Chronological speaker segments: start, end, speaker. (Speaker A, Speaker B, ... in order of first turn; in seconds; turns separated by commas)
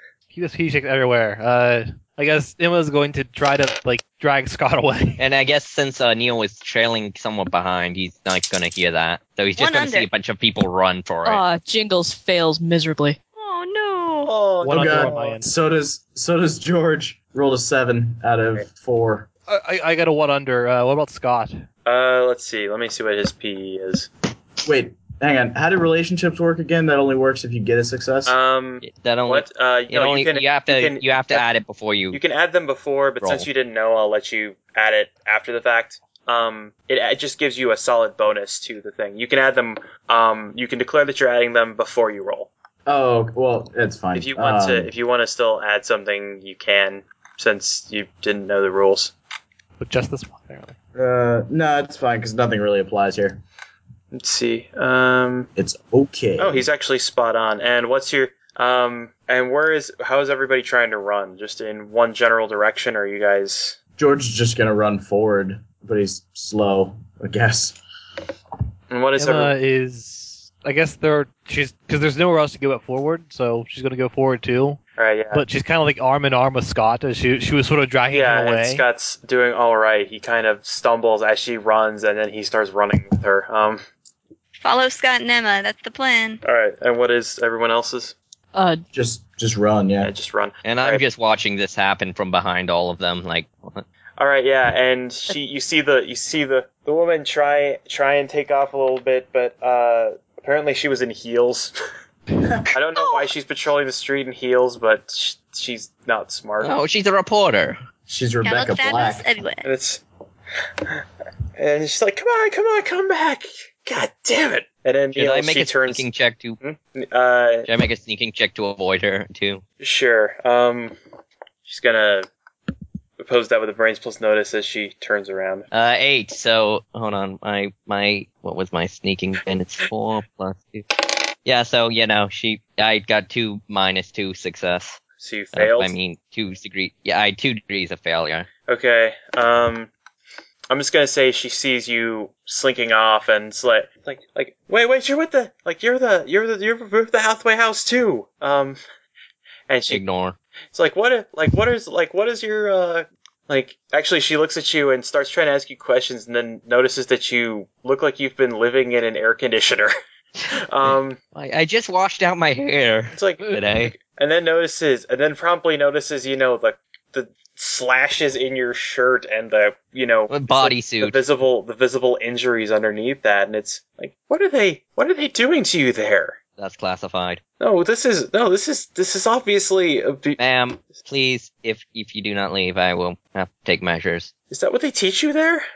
Speaker A: 0.3-5.2, Speaker B: 5.2-11.4, Speaker C: 9.6-10.1, Speaker D: 11.2-13.2, Speaker C: 13.3-14.3, Speaker E: 14.2-15.4, Speaker A: 14.6-15.4, Speaker F: 14.7-19.3, Speaker A: 19.5-21.6, Speaker E: 21.9-24.1, Speaker F: 24.6-28.3, Speaker E: 28.2-31.5, Speaker B: 28.8-32.2, Speaker E: 32.1-42.5, Speaker B: 33.2-33.5, Speaker F: 42.9-44.9, Speaker E: 44.1-49.1, Speaker A: 49.8-50.7, Speaker F: 50.9-53.4, Speaker E: 54.1-55.5, Speaker F: 55.5-56.7, Speaker E: 56.4-63.8, Speaker F: 64.0-67.8, Speaker E: 68.9-69.5, Speaker A: 69.2-74.8, Speaker E: 75.0-75.5, Speaker A: 75.3-78.8, Speaker E: 78.1-83.8, Speaker C: 84.6-86.4, Speaker E: 86.4-88.1, Speaker D: 88.5-88.8, Speaker F: 88.9-90.1, Speaker E: 90.0-91.0, Speaker B: 90.6-93.8, Speaker E: 94.2-101.7, Speaker E: 102.7-106.8, Speaker C: 103.0-103.3, Speaker B: 106.6-107.8, Speaker F: 108.1-109.3, Speaker C: 108.4-109.6, Speaker E: 109.6-110.0, Speaker E: 111.6-116.1, Speaker B: 115.1-116.6, Speaker E: 116.6-117.7, Speaker B: 117.7-119.6, Speaker E: 119.8-121.0, Speaker E: 121.6-122.3, Speaker E: 123.2-125.7, Speaker B: 125.7-135.0, Speaker E: 135.2-135.9, Speaker B: 135.5-138.5, Speaker E: 138.7-139.9, Speaker E: 140.7-148.8, Speaker E: 149.7-150.0, Speaker B: 149.9-150.3, Speaker E: 150.7-159.9, Speaker E: 160.5-161.2, Speaker B: 161.3-163.9, Speaker E: 163.1-176.4, Speaker B: 170.3-171.2, Speaker B: 176.6-177.4, Speaker E: 177.6-180.4, Speaker B: 180.4-184.3, Speaker E: 184.5-185.6